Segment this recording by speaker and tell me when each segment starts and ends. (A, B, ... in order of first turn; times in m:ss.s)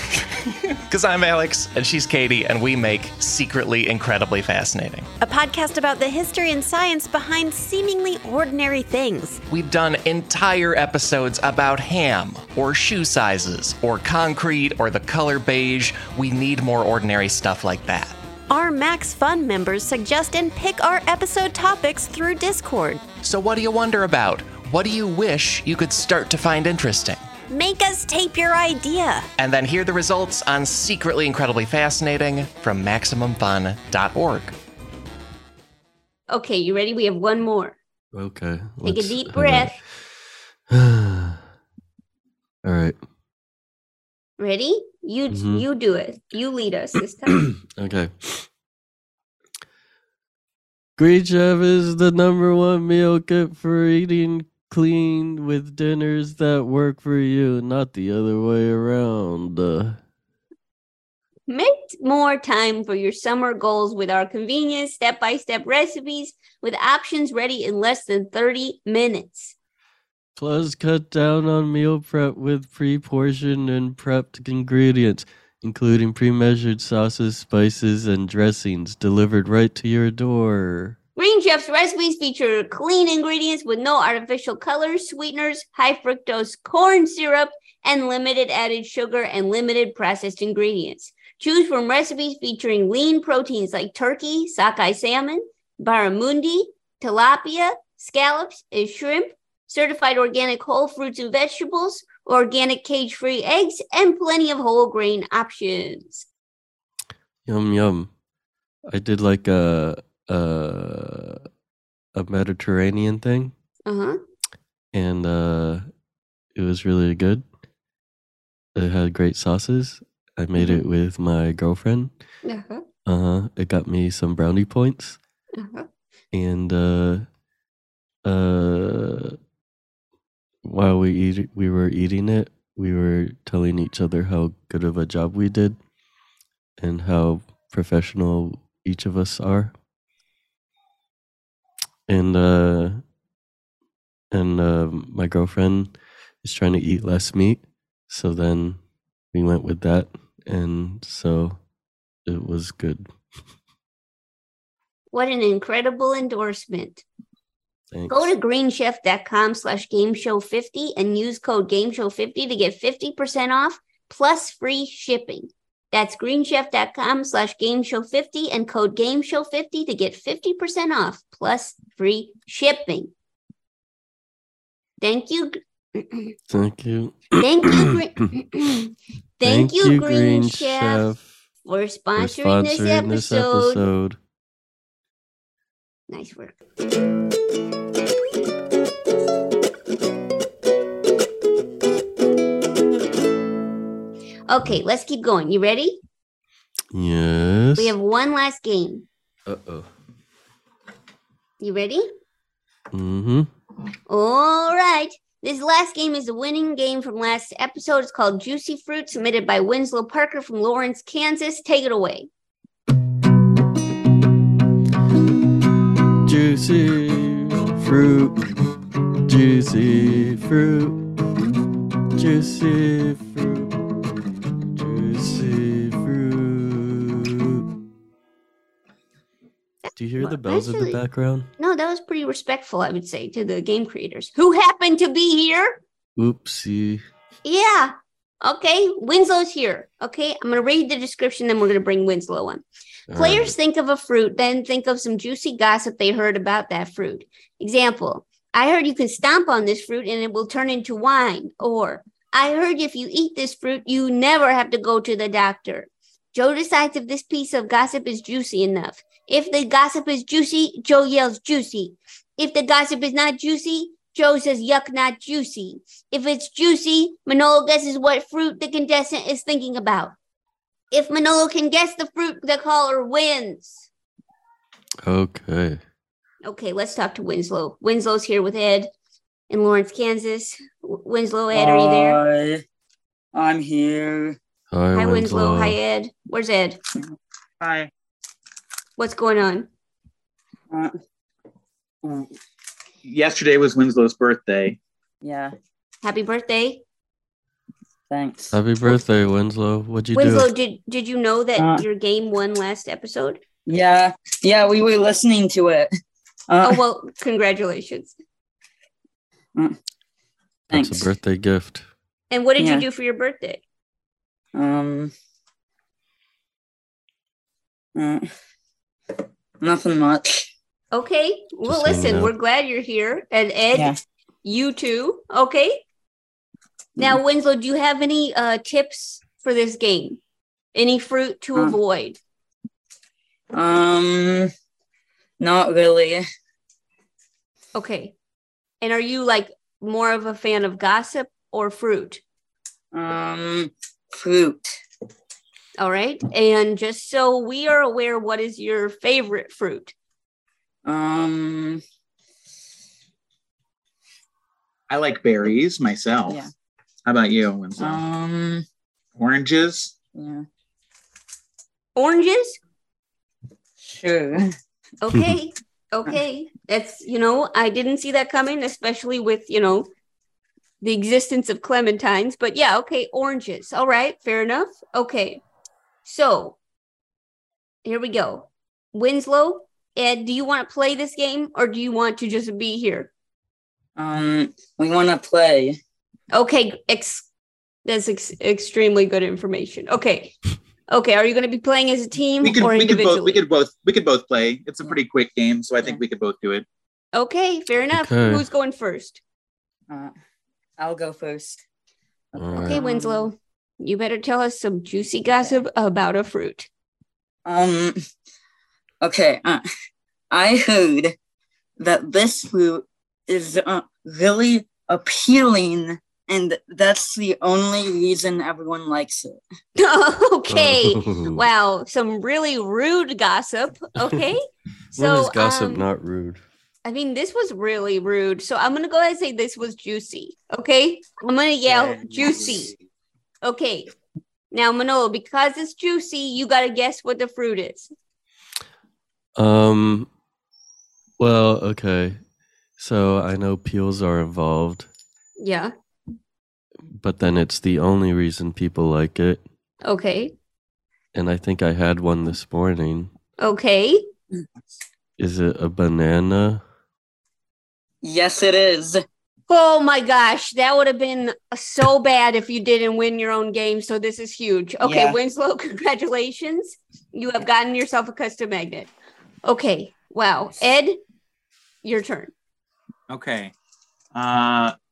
0:00.9-0:05.1 A
0:05.2-0:09.4 B
0:09.5-0:18.2 A
0:18.5-0:23.0 B
0:23.2-0:27.2 A
0:27.5-0:29.3 B
0:29.4-0:34.6 A
0:36.3-0:37.8 C
0:38.1-0:39.8 D
0:38.8-0:39.8 C
0:40.7-0:41.4 D
0:42.6-0:43.0 D
0:44.4-0:47.4 C
0:45.3-0:45.6 D
0:47.8-0:48.5 D
0:51.0-1:00.0 D
1:01.5-1:09.6 C
1:10.4-1:21.0 D
1:21.2-1:46.3 C
1:47.5-1:48.1 D
1:48.9-1:51.5 D
1:52.2-1:53.5 D
1:53.9-1:54.2 C
1:54.9-1:55.9 D
1:56.6-1:57.4 D
1:58.8-2:02.1 D
2:02.4-2:02.8 C
2:03.1-2:05.2 D
2:05.5-2:05.9 C
2:06.3-2:07.3 D
2:08.2-2:09.4 D
2:10.6-2:15.8 D
2:16.8-2:19.7 D
2:22.1-2:23.0 D
2:24.3-2:28.8 D
2:29.3-2:31.6 D
2:32.3-2:33.1 D
2:35.1-2:37.0 C
2:37.9-2:38.3 D
2:38.1-2:53.1 C
2:55.0-2:56.4 C
2:56.5-2:58.0 D
2:57.4-3:01.1 C
2:59.4-3:01.3 D
3:01.6-3:03.9 C
3:02.2-3:04.2 D
3:06.1-3:06.6 C
3:14.5-3:16.0 C
3:16.9-3:17.9 D
3:17.8-3:19.1 C
3:19.5-3:19.9 D
3:21.6-3:22.1 C
3:22.9-3:23.5 D
3:24.1-3:32.3 C
3:36.2-3:38.4 D
3:39.3-3:41.0 D
3:42.2-3:43.7 D
3:44.8-3:47.6 D
3:49.9-3:51.0 C
3:50.0-3:51.5 D
3:51.6-3:55.8 C
3:56.2-3:57.0 D
3:57.4-4:30.2 C
4:03.1-4:03.6 D
4:30.9-4:33.9 C
4:35.0-4:35.8 D
4:36.4-4:38.9 C
4:39.5-4:42.2 C
4:41.5-4:42.6 E
4:43.3-4:44.4 E
4:44.7-4:45.8 D
4:44.9-4:46.8 C
4:47.6-4:47.9 F
4:49.0-4:49.7 C
4:50.7-4:51.0 E
4:53.0-4:54.8 F
4:55.2-4:55.5 E
4:56.0-4:56.8 C
4:58.1-4:58.6 E
4:58.5-5:00.5 D
5:00.1-5:03.4 C
5:01.6-5:01.8 E
5:03.7-5:05.9 E
5:06.5-5:06.8 E
5:06.6-5:08.1 C
5:10.7-5:11.1 E
5:10.7-5:11.9 D
5:12.3-5:13.6 C
5:12.6-5:12.9 E
5:14.5-5:15.1 E
5:18.0-5:18.3 E
5:19.6-5:20.5 E
5:20.9-5:25.8 C
5:21.7-5:22.3 D
5:27.0-5:30.2 C
5:30.7-5:32.2 C
5:33.5-5:34.5 E
5:35.4-5:36.2 E
5:37.8-5:38.1 C
5:38.8-5:42.2 C
5:42.9-5:44.8 E
5:45.8-5:49.9 C
5:50.8-5:51.8 E
5:54.9-5:56.4 F
5:57.0-5:58.0 F
5:57.8-5:58.6 E
5:59.2-6:00.0 F
6:00.1-6:00.4 E
6:02.0-6:02.6 C
6:03.8-6:04.5 E
6:05.0-6:09.9 C
6:10.8-6:15.4 C
6:16.0-6:16.6 C
6:17.8-6:23.1 C
6:24.0-6:25.8 E
6:26.3-6:27.3 C
6:27.8-6:30.4 C
6:30.9-6:33.4 C
6:32.4-6:36.7 F
6:37.1-6:39.2 C
6:38.0-6:38.4 D
6:39.9-6:40.1 E
6:40.8-6:41.6 E
6:42.3-6:43.3 E
6:42.4-6:42.8 D
6:42.6-6:46.7 C
6:47.5-6:48.0 E
6:49.0-6:49.6 E
6:50.3-6:51.2 E
6:51.8-6:59.4 E
6:59.8-7:05.9 C
7:00.5-7:01.4 D
7:05.0-7:06.4 D
7:06.8-7:12.7 C
7:11.7-7:12.7 E
7:13.4-7:13.9 C
7:14.5-7:17.9 C
7:19.4-7:20.1 D
7:21.2-7:22.2 D
7:22.8-7:24.9 D
7:25.4-7:25.7 C
7:26.9-7:29.4 D
7:29.8-7:30.4 C
7:31.1-7:33.1 D
7:33.4-7:34.0 C
7:35.2-7:36.6 D
7:38.0-7:39.0 E
7:39.5-7:48.9 C
7:44.8-7:45.2 E
7:49.4-7:51.0 C
7:51.8-7:52.3 C
7:53.1-7:53.5 F
7:54.1-7:54.8 F